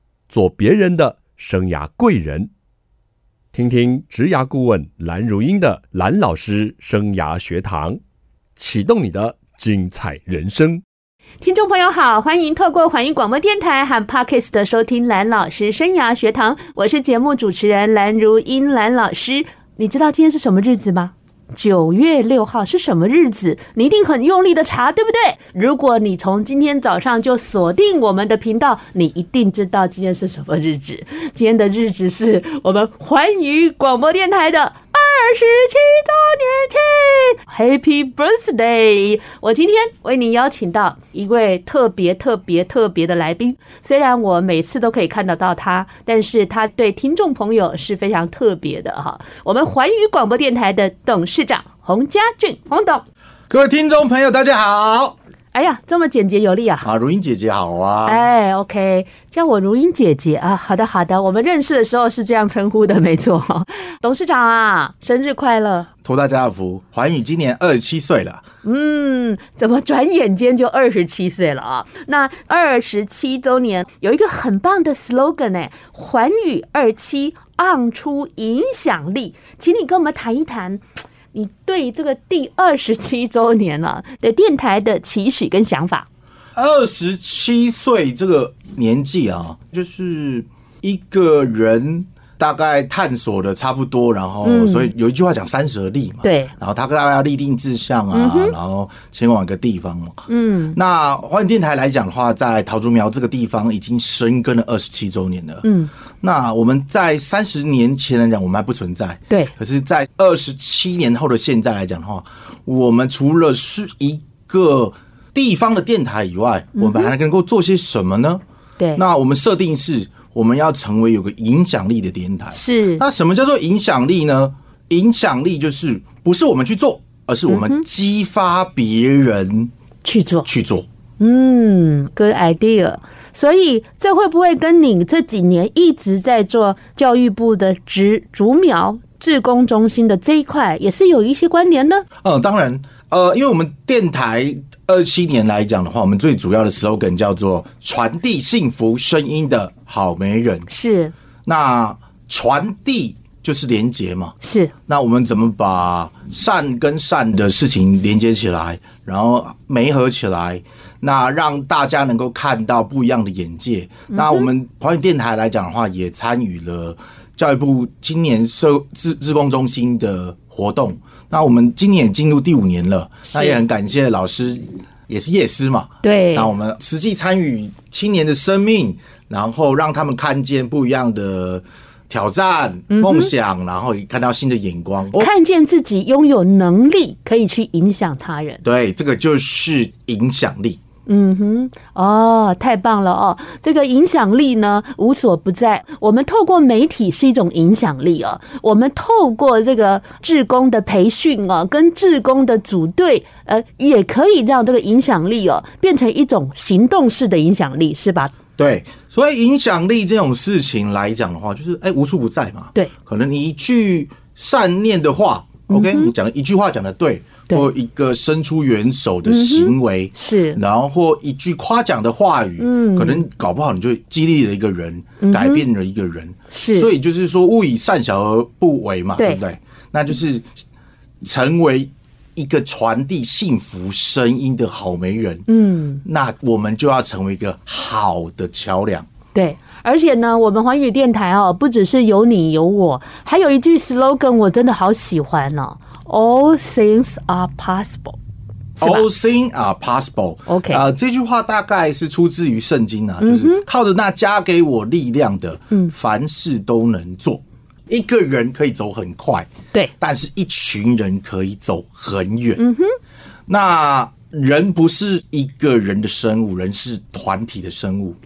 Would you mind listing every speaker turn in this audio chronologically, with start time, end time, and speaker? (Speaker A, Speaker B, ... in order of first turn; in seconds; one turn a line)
Speaker A: 0.3-2.5
Speaker A: 3.5-8.0
Speaker A: 8.6-10.8
Speaker B: 11.4-53.0
Speaker C: 53.5-55.1
Speaker B: 55.5-56.9
Speaker C: 56.8-58.2
Speaker B: 58.0-65.9
Speaker C: 66.0-68.4
Speaker B: 68.6-80.8
Speaker B: 81.3-86.1
Speaker C: 86.5-100.2
Speaker B: 94.4-94.9
Speaker B: 96.2-96.5
Speaker B: 98.1-98.5
Speaker B: 100.3-100.8
Speaker C: 100.7-105.6
Speaker B: 105.6-105.9
Speaker C: 106.2-118.4
Speaker B: 116.8-117.1
Speaker C: 118.9-129.7
Speaker B: 122.5-123.0
Speaker B: 127.5-127.8
Speaker B: 130.0-130.5
Speaker C: 130.4-130.9
Speaker B: 131.2-142.1
Speaker C: 142.2-150.7
Speaker B: 150.7-151.1
Speaker C: 151.4-185.3
Speaker B: 154.4-154.7
Speaker B: 164.1-164.5
Speaker B: 173.3-173.6
Speaker B: 176.0-176.5
Speaker B: 182.9-183.3
Speaker B: 185.1-188.6
Speaker C: 188.6-190.8
Speaker B: 191.1-208.3
Speaker C: 208.6-230.5
Speaker B: 215.7-216.1
Speaker B: 219.2-220.6
Speaker B: 222.6-223.2
Speaker B: 225.2-225.6
Speaker B: 226.5-226.9
Speaker C: 231.2-235.4
Speaker B: 235.5-236.0
Speaker C: 236.0-239.1
Speaker B: 239.3-248.2
Speaker C: 248.8-259.5
Speaker B: 248.8-249.1
Speaker B: 250.5-250.8
Speaker B: 253.2-253.6
Speaker C: 260.0-262.6
Speaker B: 262.6-262.9
Speaker C: 263.5-268.2